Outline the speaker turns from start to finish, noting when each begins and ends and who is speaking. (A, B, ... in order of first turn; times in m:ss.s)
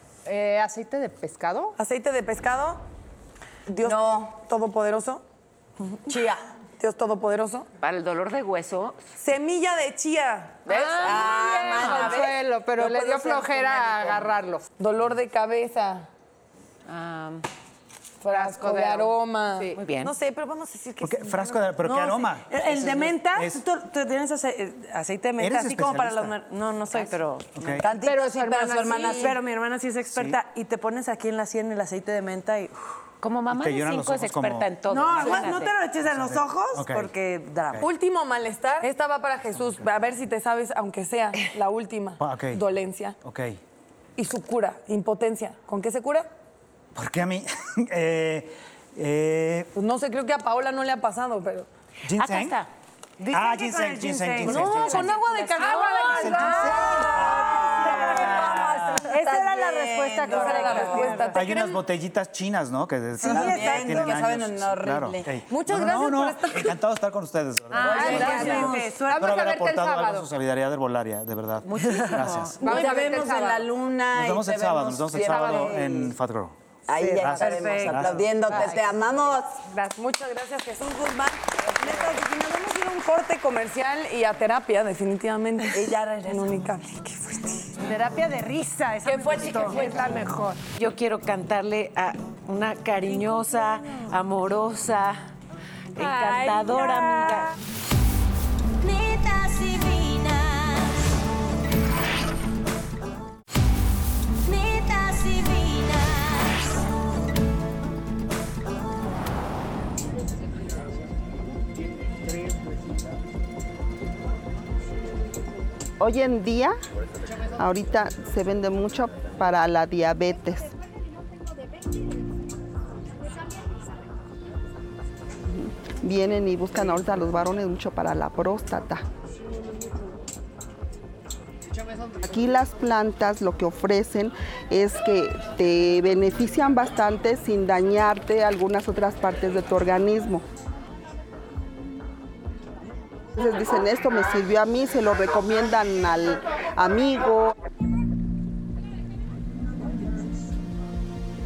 0:00.2-0:01.8 A
0:01.8-0:02.8 B
0:03.7-0:05.2 B
0:03.8-0:04.3 C
0:06.0-0:06.4 C
0:06.8-0:07.7 B
0:07.8-0:09.0 D
0:09.2-0:10.8 B
0:10.7-0:14.3 C
0:10.7-0:14.6 A
0:10.7-0:12.1 D
0:14.8-0:16.1 B
0:16.9-0:17.4 D
0:18.2-0:21.8 B
0:18.3-0:19.8 A
0:19.7-0:20.1 D
0:21.0-0:23.6 E
0:21.8-0:27.6 F
0:25.4-0:26.3 E
0:27.6-0:27.9 E
0:27.8-0:29.4 C
0:27.9-0:29.4 A
0:29.0-0:32.8 F
0:30.1-0:30.4 E
0:33.2-0:35.8 D
0:33.5-0:34.7 E
0:34.9-0:37.8 F
0:36.0-0:37.1 E
0:37.8-0:43.2 B
0:42.2-0:42.6 E
0:43.2-0:43.6 E
0:44.2-0:46.3 B
0:46.9-0:49.7 E
0:49.7-0:51.7 B
0:52.0-0:52.6 E
0:52.2-0:52.7 D
0:53.2-0:54.9 F
0:53.3-0:55.2 E
0:54.4-0:58.1 B
0:54.6-0:56.1 D
0:55.5-0:57.0 A
0:56.1-0:59.1 E
0:56.2-1:01.3 F
0:57.6-1:01.2 C
1:00.2-1:01.8 B
1:00.8-1:01.1 A
1:01.3-1:12.7 E
1:03.2-1:04.2 F
1:03.3-1:05.3 C
1:05.5-1:06.8 B
1:07.7-1:09.4 F
1:07.8-1:10.3 A
1:07.8-1:08.9 C
1:08.0-1:08.7 B
1:11.8-1:12.5 F
1:12.0-1:12.5 D
1:12.6-1:13.7 A
1:12.6-1:16.1 C
1:14.1-1:16.6 E
1:15.2-1:15.8 A
1:16.9-1:19.6 C
1:17.0-1:18.1 F
1:17.1-1:18.3 E
1:18.5-1:18.8 A
1:19.9-1:27.8 B
1:25.7-1:26.6 C
1:27.8-1:30.5 F
1:29.1-1:30.5 A
1:29.3-1:35.2 D
1:29.4-1:29.9 B
1:33.2-1:34.0 F
1:35.9-1:37.5 D
1:36.0-1:37.5 A
1:38.8-1:41.2 G
1:44.4-1:46.7 G
1:56.0-1:56.7 H
1:57.5-2:00.7 H
2:05.5-2:09.0 H
2:12.2-2:20.4 H
2:23.4-2:27.5 H